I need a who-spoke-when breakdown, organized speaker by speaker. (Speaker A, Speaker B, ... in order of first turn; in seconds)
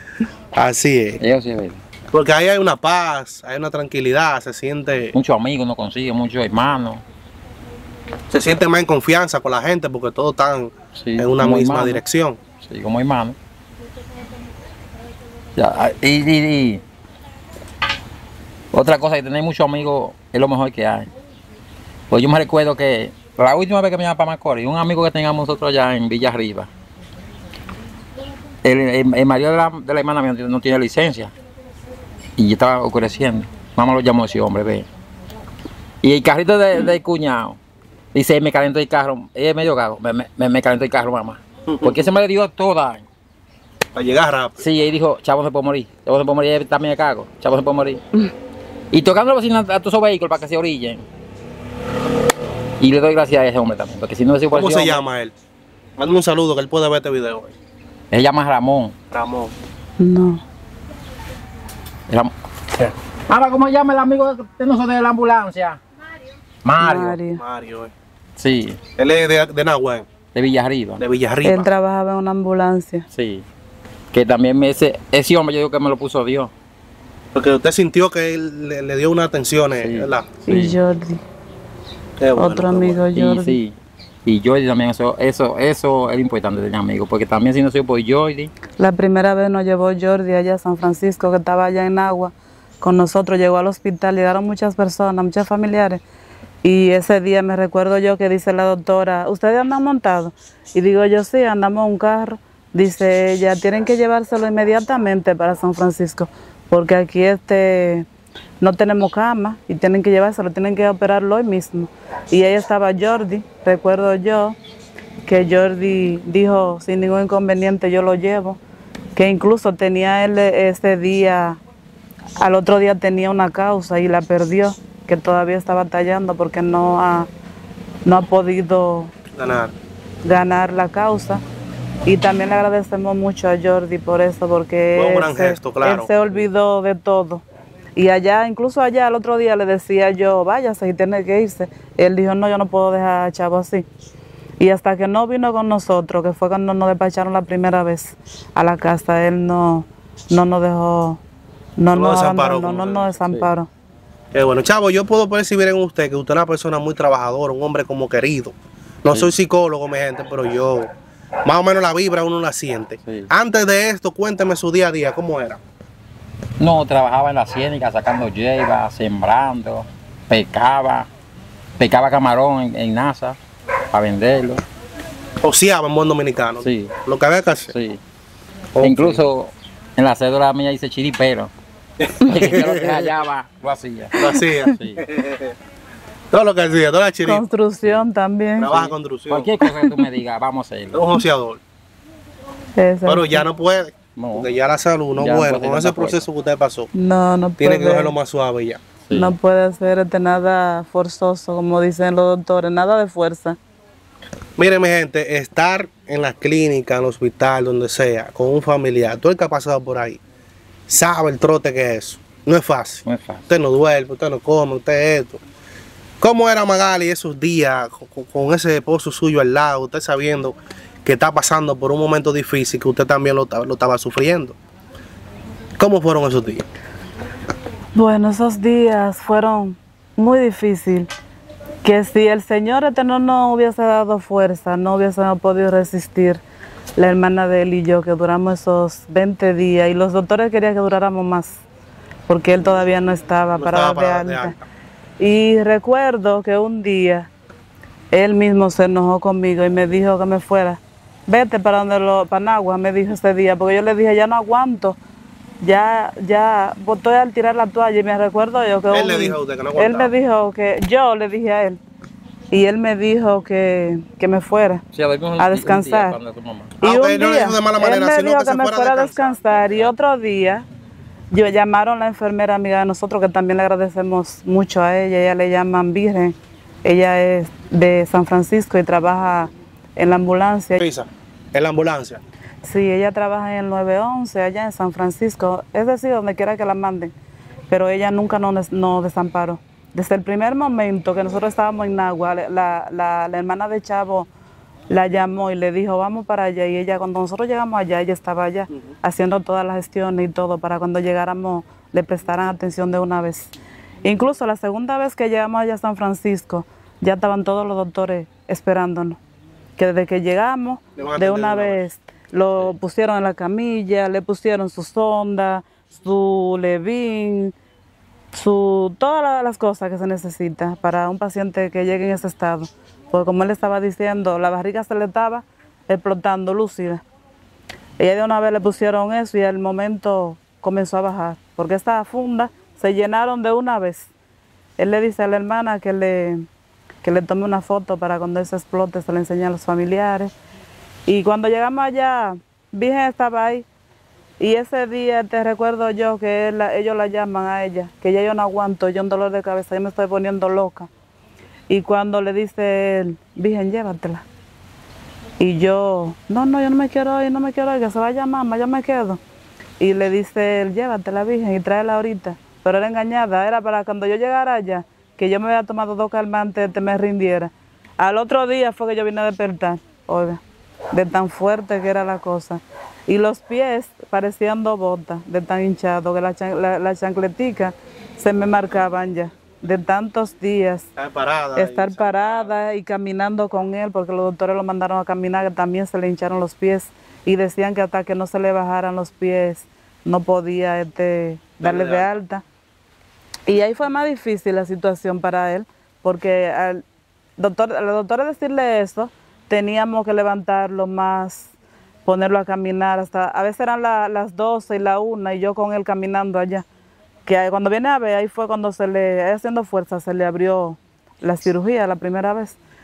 Speaker A: 0.6-1.2, 2.1-5.1, 8.3-12.4, 41.7-42.1, 44.0-44.5, 54.5-55.3, 56.0-57.5, 59.1-59.5, 67.4-67.9, 69.0-70.1, 71.0-71.7, 77.3-80.3, 82.2-83.0, 129.3-129.7, 134.9-136.1, 151.9-153.2, 154.3-160.9, 161.4-165.6, 175.4-177.7, 178.8-179.2, 182.0-183.1, 184.2-185.6, 186.3-187.4, 188.6-189.5, 190.9-191.6, 193.1-196.9, 197.6-198.8, 204.6-210.2, 210.9-215.4, 216.2-224.6, 225.8-226.7, 243.6-244.6, 258.9-260.1, 266.8-269.6, 280.8-282.2, 311.0-311.8, 381.0-382.5, 391.6-392.1
Speaker B: 1.2-1.8, 5.1-7.0, 10.9-12.0, 12.6-13.4, 15.6-16.8, 18.7-21.1, 22.1-26.7, 28.6-31.3, 32.4-34.9, 36.0-37.6, 38.1-43.0, 44.6-48.0, 48.9-51.0, 52.8-55.0, 58.1-59.0, 62.1-65.8, 66.6-67.2, 68.4-68.8, 70.3-71.0, 73.1-73.5, 74.1-76.5, 79.8-80.8, 83.1-88.5, 153.2-153.5, 166.6-171.1, 171.8-173.4, 173.9-174.6, 176.6-176.9, 177.7-178.0, 178.8-181.5, 182.2-185.0, 188.7-191.1, 194.2-194.5, 195.2-196.3, 199.1-199.3, 213.1-213.5, 264.9-266.7
Speaker C: 60.0-60.4, 66.8-67.4, 71.4-73.1, 80.5-81.2, 82.4-83.6, 88.8-96.0, 96.6-108.1, 108.6-114.6, 115.3-118.6, 119.2-121.6, 122.4-127.3, 128.1-129.1, 130.2-131.4, 132.1-137.4, 138.0-143.9, 144.6-151.2, 151.8-153.7, 184.4-184.7, 187.2-188.7, 189.6-190.1, 192.8-193.4, 196.9-198.1, 199.1-203.6, 227.9-231.1, 231.8-236.4, 237.0-241.6, 242.3-244.6, 245.2-247.3, 248.1-255.0, 255.6-261.8, 262.5-264.8, 265.4-266.2, 266.8-270.6, 271.3-280.8, 282.6-287.1, 287.7-294.3, 294.9-303.5, 304.0-309.2, 309.8-317.5, 318.3-327.0, 328.0-334.1, 334.8-336.4, 337.0-340.3, 341.1-343.7, 344.4-350.9, 351.7-354.2, 355.4-359.2, 359.8-370.4, 370.9-380.9, 381.6-392.4, 393.5-396.8, 397.4-401.5, 402.1-406.6, 407.3-412.6